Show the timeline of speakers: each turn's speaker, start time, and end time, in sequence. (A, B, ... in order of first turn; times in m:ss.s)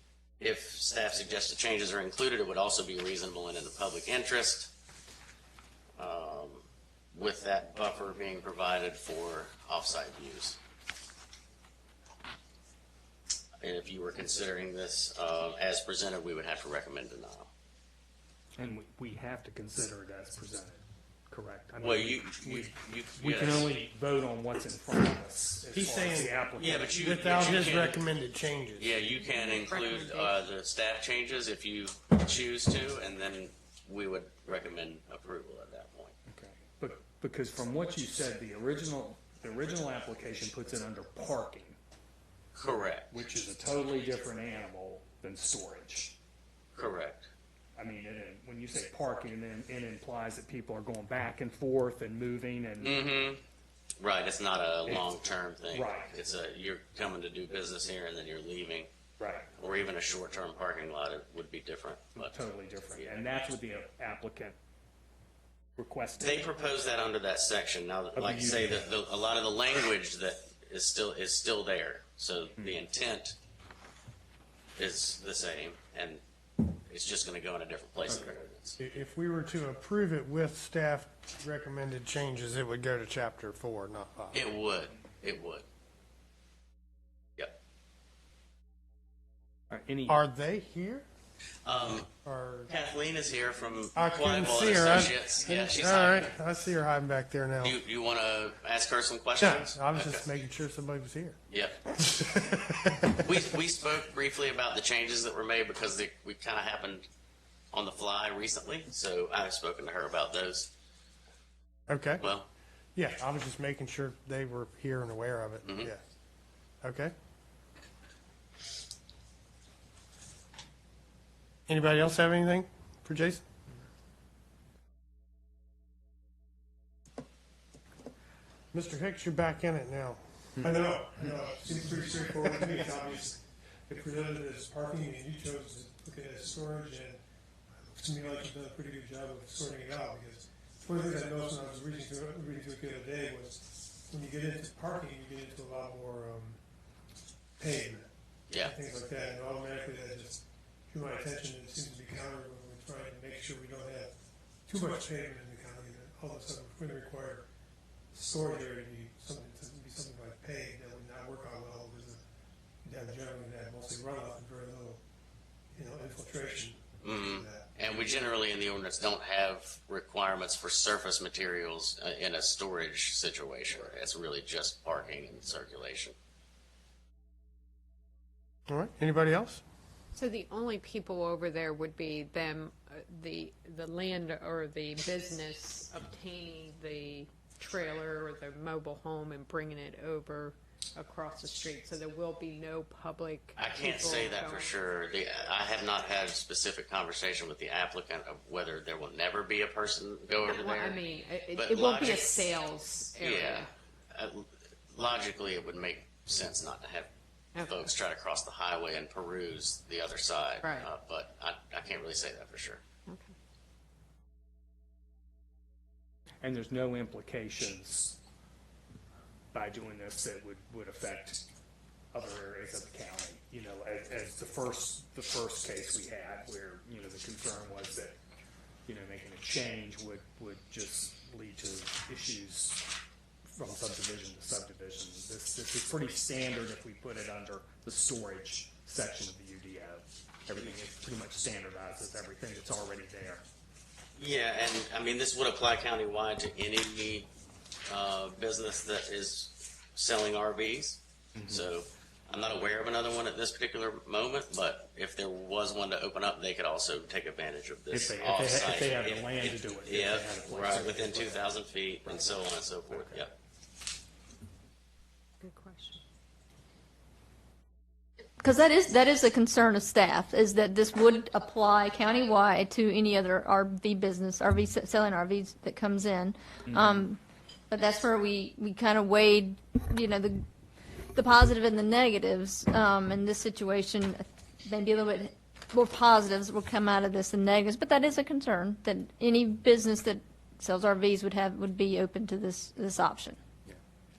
0:00.4-0:04.7 A
0:06.0-0:06.6 A
0:07.1-0:10.6 A
0:13.6-0:17.5 A
0:18.6-0:27.9 B
0:21.8-0:23.7 A
0:25.7-0:29.0 C
0:26.5-0:28.0 A
0:28.8-0:36.1 A
0:29.2-0:30.4 D
0:36.3-0:41.8 B
0:42.5-0:43.1 A
0:43.0-0:46.1 B
0:46.8-0:47.3 A
0:47.8-0:53.0 B
0:52.8-0:53.4 A
0:54.0-0:58.9 A
0:54.8-0:55.1 B
0:55.7-0:56.1 B
0:59.2-0:59.5 B
0:59.6-1:02.4 A
1:02.2-1:04.6 B
1:05.8-1:06.4 B
1:06.2-1:13.4 A
1:08.1-1:08.8 B
1:14.8-1:18.8 A
1:18.8-1:24.4 C
1:24.3-1:25.6 A
1:29.7-1:30.2 B
1:30.1-1:31.0 C
1:31.6-1:32.1 A
1:31.9-1:32.7 C
1:32.7-1:36.3 A
1:33.9-1:37.8 C
1:37.6-1:40.3 A
1:39.4-1:41.4 C
1:41.5-1:41.8 A
1:42.0-1:43.2 C
1:43.2-1:47.0 A
1:47.7-1:50.7 A
1:51.9-1:52.2 C
1:52.2-1:52.5 A
1:52.9-1:56.0 C
1:55.6-1:55.9 A
1:56.8-1:57.1 C
2:01.7-2:03.4 C
2:08.7-2:12.8 C
2:10.8-2:17.2 E
2:17.9-2:23.6 E
2:18.1-2:18.7 C
2:19.6-2:20.1 C
2:20.8-2:21.7 C
2:22.6-2:22.9 C
2:24.1-2:26.6 E
2:27.6-2:28.1 E
2:27.6-2:28.0 C
2:28.5-2:28.7 A
2:28.6-2:30.3 C
2:29.2-2:30.3 E
2:30.9-2:34.0 E
2:31.3-2:33.0 C
2:33.6-2:34.1 C
2:34.7-2:35.0 C
2:34.9-2:37.4 E
2:38.1-2:41.6 E
2:39.9-2:40.4 C
2:41.5-2:42.2 C
2:42.8-2:44.7 C
2:42.8-2:45.0 E
2:45.7-2:47.6 C
2:47.0-2:56.1 A
2:58.7-2:59.6 C
3:00.1-3:14.7 D
3:13.6-3:21.0 A
3:20.4-3:23.7 D
3:21.5-3:22.4 A
3:23.2-3:27.1 A
3:27.5-3:27.9 D
3:27.6-3:32.8 A
3:30.6-3:30.9 D
3:33.1-3:33.3 D
3:36.4-3:38.2 B
3:39.5-3:41.4 B
3:42.1-3:48.2 B
3:48.8-3:52.9 B
3:53.4-4:03.4 B
4:04.2-4:07.3 A
4:07.9-4:23.3 A
4:11.3-4:11.6 B
4:17.9-4:21.6 B
4:25.4-4:26.0 D
4:28.4-4:40.4 F
4:36.7-4:37.0 B
4:41.1-4:53.4 F